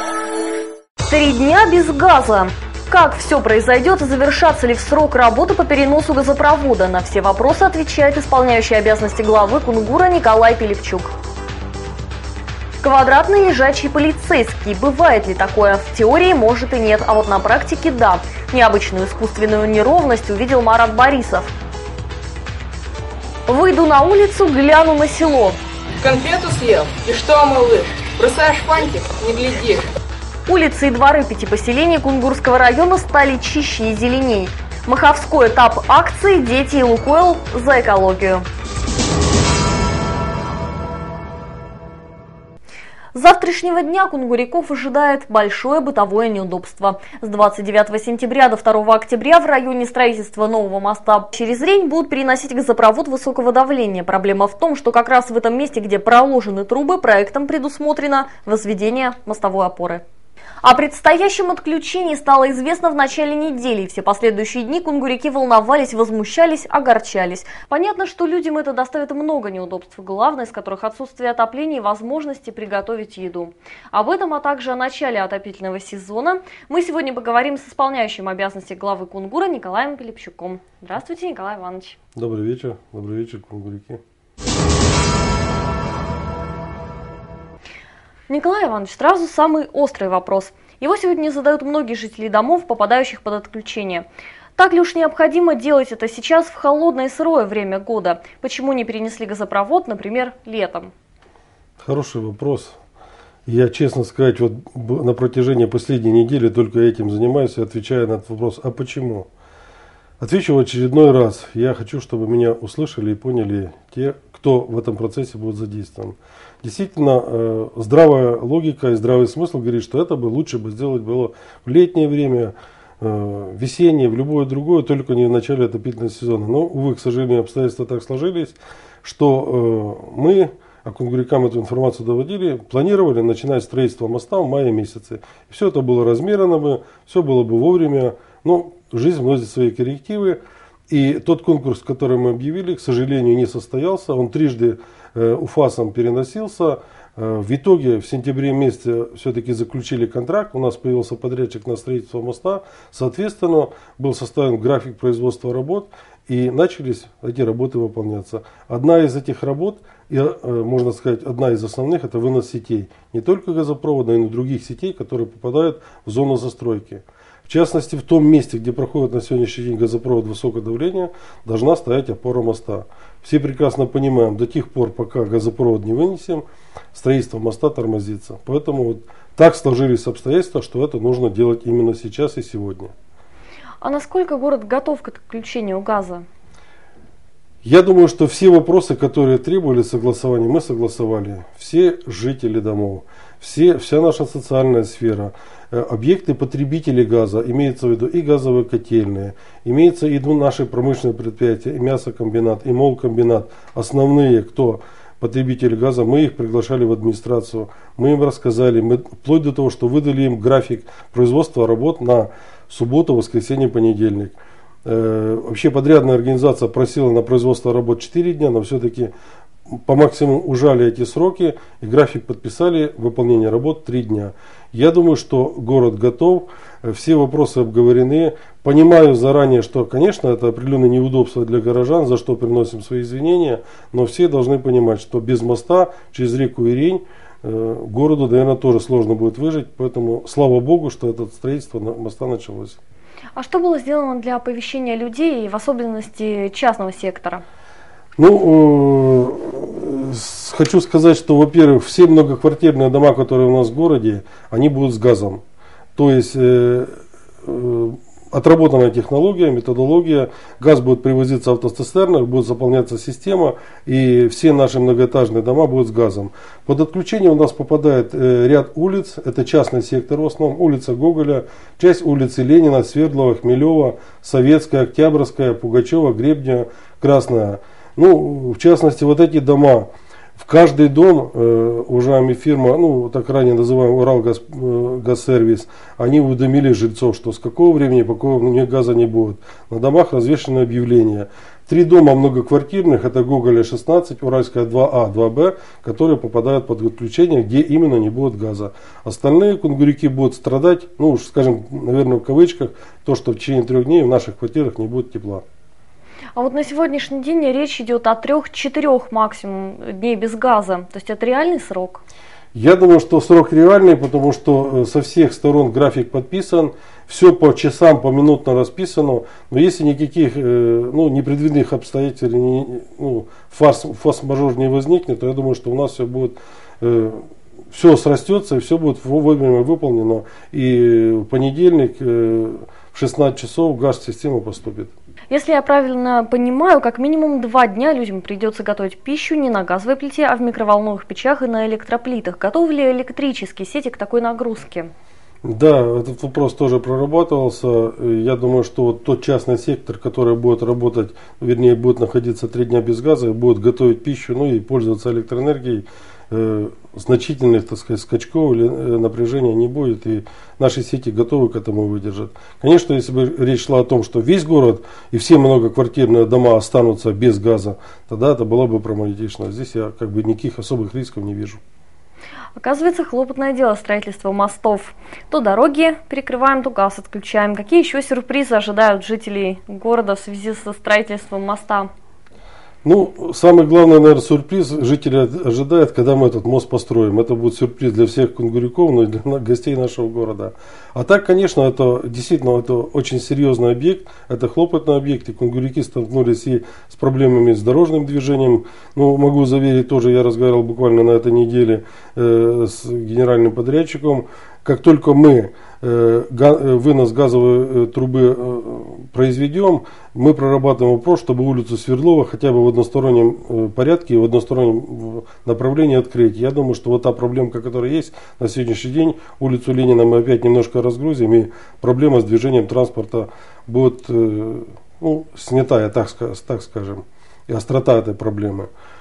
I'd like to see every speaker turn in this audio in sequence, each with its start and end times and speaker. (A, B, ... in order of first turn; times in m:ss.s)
0:01.0-0:11.1 A
0:12.8-0:21.5 A
0:23.5-0:25.6 A
0:26.0-0:29.9 B
0:30.5-0:38.4 A
0:43.1-1:00.0 A
1:00.6-1:22.0 A
1:22.1-1:24.0 C
1:28.3-1:40.9 A
1:41.8-1:42.8 C
1:43.4-1:49.3 C
1:50.2-2:56.4 C
2:56.9-3:02.9 C
3:03.8-3:06.2 A
3:07.6-3:39.1 C
3:39.7-4:02.8 C
4:03.4-4:07.4 A
4:08.2-4:15.4 C
4:16.0-5:05.4 C
5:06.4-5:12.0 A
5:12.5-5:34.9 C
5:35.3-5:44.9 A
5:45.4-6:11.6 C
6:12.6-6:21.9 A
6:22.8-7:08.7 C